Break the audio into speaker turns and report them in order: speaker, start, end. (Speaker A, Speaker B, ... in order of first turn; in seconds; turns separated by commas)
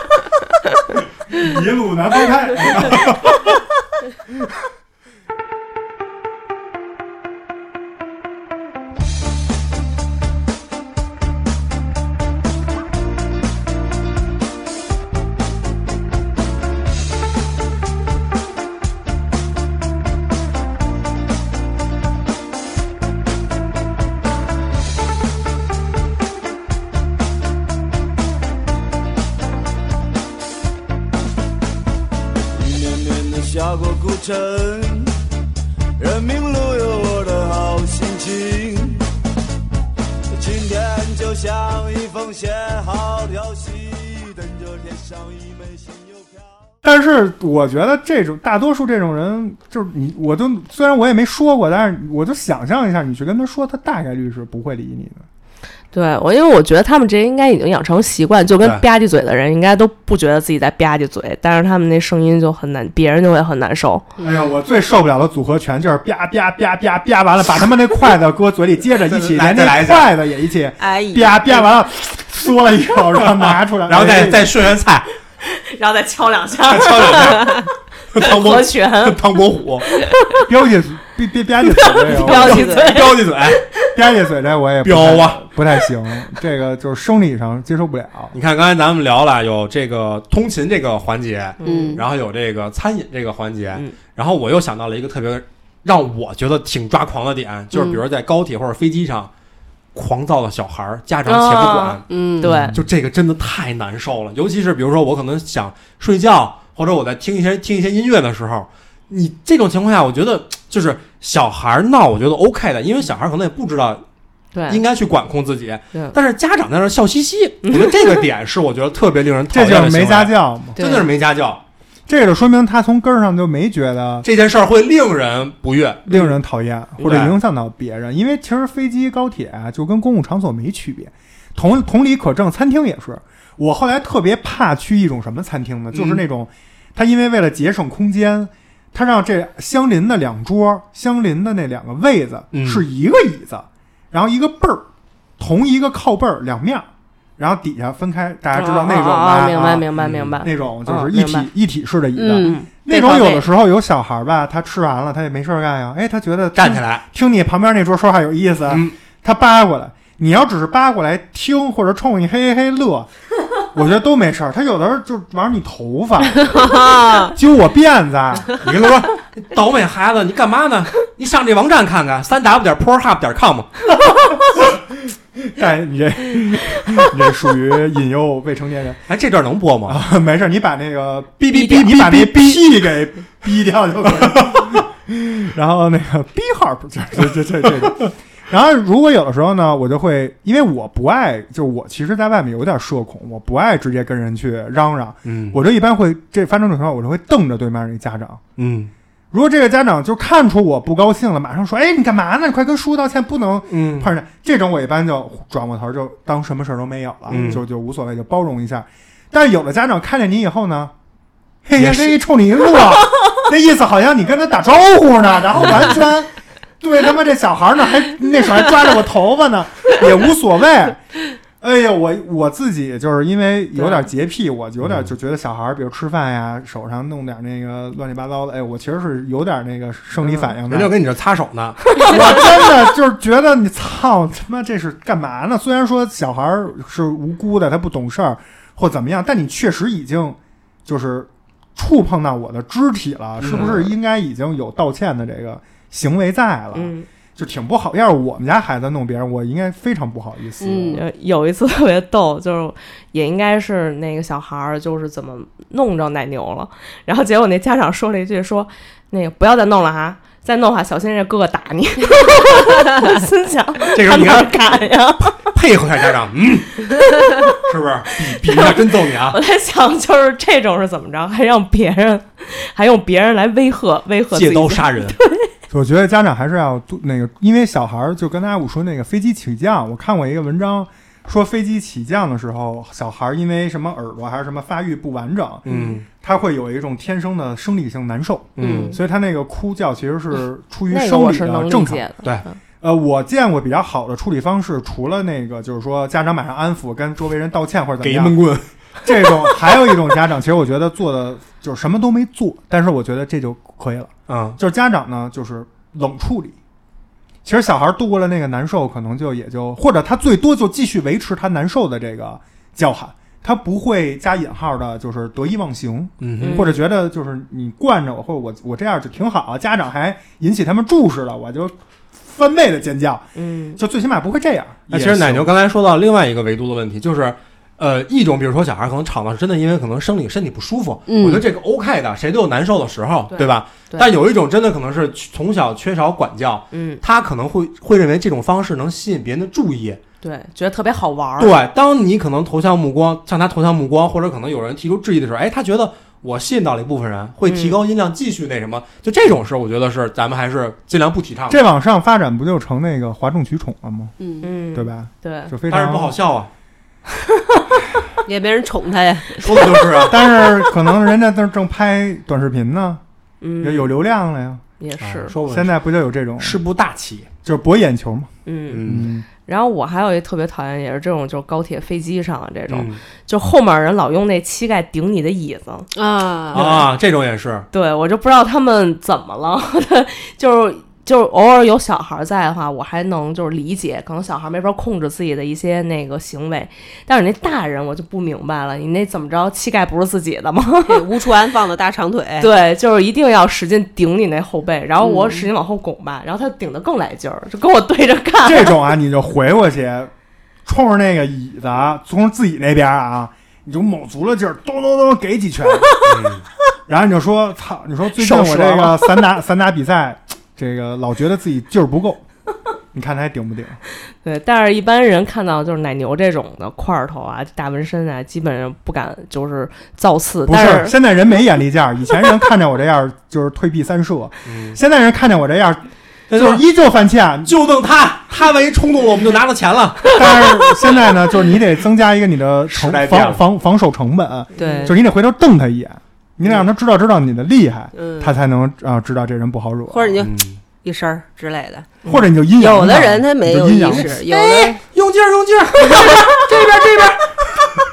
Speaker A: 1.3-3.6, Speaker B: 32.5-35.1, Speaker B: 36.0-39.0, Speaker B: 40.3-46.6, Speaker A: 46.8-55.3, Speaker C: 55.9-64.0, Speaker A: 64.2-74.5, Speaker D: 69.1-70.1, Speaker E: 70.8-71.7, Speaker D: 73.2-75.1, Speaker C: 75.4-77.6, Speaker D: 76.7-79.9, Speaker C: 78.2-79.2, Speaker A: 80.5-82.7, Speaker C: 81.8-83.7, Speaker E: 82.2-83.0, Speaker D: 82.3-83.6, Speaker A: 84.0-88.4, Speaker D: 84.8-85.4, Speaker D: 88.3-99.3, Speaker C: 91.6-92.0, Speaker E: 91.6-92.0, Speaker D: 99.9-114.0, Speaker C: 101.3-102.8, Speaker E: 102.1-102.7, Speaker C: 114.5-114.8, Speaker D: 114.7-121.6, Speaker C: 117.6-118.2, Speaker A: 119.5-120.8, Speaker E: 120.8-121.0, Speaker A: 122.1-124.3, Speaker D: 124.2-126.1, Speaker A: 126.1-144.9, Speaker D: 127.0-127.4, Speaker D: 135.9-136.2, Speaker D: 142.5-142.8, Speaker A: 145.4-149.9, Speaker C: 148.5-151.5, Speaker D: 150.0-150.4, Speaker A: 150.4-163.1, Speaker E: 152.2-152.7, Speaker C: 152.4-153.4, Speaker D: 156.6-157.0, Speaker D: 158.7-158.9, Speaker A: 163.7-166.8, Speaker E: 166.4-167.3, Speaker A: 167.3-168.5, Speaker D: 168.6-173.7, Speaker A: 174.1-179.0, Speaker D: 179.1-180.0, Speaker A: 179.9-198.4, Speaker D: 181.5-182.6, Speaker D: 195.2-195.6, Speaker D: 198.6-198.9, Speaker A: 199.3-210.9, Speaker D: 203.7-204.1, Speaker D: 207.3-207.6, Speaker A: 211.7-221.0, Speaker D: 211.8-212.2, Speaker A: 221.6-230.9, Speaker C: 223.8-224.1, Speaker D: 224.8-225.1, Speaker D: 230.2-232.2, Speaker A: 232.0-251.0, Speaker D: 243.4-243.9, Speaker C: 246.7-247.1, Speaker E: 250.6-251.0, Speaker C: 250.9-265.3, Speaker D: 263.9-264.5, Speaker D: 265.3-267.0, Speaker D: 267.5-269.4, Speaker C: 268.5-268.8, Speaker C: 269.3-275.4, Speaker D: 274.3-275.2, Speaker A: 275.7-292.1, Speaker D: 285.6-286.1, Speaker C: 285.7-286.0, Speaker D: 288.6-288.9, Speaker C: 288.6-289.0, Speaker C: 290.9-292.6, Speaker A: 292.8-298.4, Speaker D: 298.0-299.6, Speaker A: 299.0-306.6, Speaker D: 304.3-304.6, Speaker A: 307.4-325.5, Speaker D: 316.2-316.7, Speaker C: 316.4-316.8, Speaker C: 323.4-323.8, Speaker D: 324.9-340.0, Speaker E: 331.1-331.4, Speaker C: 333.3-334.1, Speaker C: 336.7-337.0, Speaker C: 340.2-341.6, Speaker D: 341.4-351.6, Speaker C: 347.4-347.8, Speaker A: 351.5-354.1, Speaker E: 354.2-354.5, Speaker C: 354.4-355.5, Speaker A: 354.7-356.2, Speaker D: 355.7-356.5, Speaker E: 358.2-359.9, Speaker D: 359.4-360.2, Speaker A: 360.1-363.0, Speaker C: 363.4-363.9, Speaker A: 363.6-364.6, Speaker C: 364.8-365.4, Speaker D: 365.0-365.7, Speaker A: 365.4-366.6, Speaker D: 366.4-367.3, Speaker A: 367.4-368.3, Speaker C: 368.5-368.8, Speaker D: 368.7-369.1, Speaker A: 368.8-369.3, Speaker C: 369.4-375.9, Speaker D: 372.7-373.0, Speaker E: 375.9-376.8, Speaker D: 376.5-377.7, Speaker C: 376.5-376.8, Speaker C: 377.7-391.1, Speaker E: 390.9-392.5, Speaker C: 392.4-398.8, Speaker E: 395.0-395.5, Speaker A: 398.4-400.1, Speaker A: 400.7-406.1, Speaker D: 406.0-406.4, Speaker A: 406.9-412.2, Speaker C: 408.2-409.1, Speaker A: 412.9-413.8, Speaker C: 414.2-421.0, Speaker A: 420.5-427.6, Speaker D: 424.5-424.8, Speaker D: 426.3-426.6, Speaker D: 427.4-430.7, Speaker A: 430.1-440.1, Speaker D: 432.7-433.4, Speaker C: 434.6-434.9, Speaker E: 434.6-435.0, Speaker E: 437.9-438.3, Speaker E: 439.9-442.0, Speaker D: 440.2-440.6, Speaker A: 442.1-444.2, Speaker E: 442.6-444.8, Speaker D: 443.9-447.6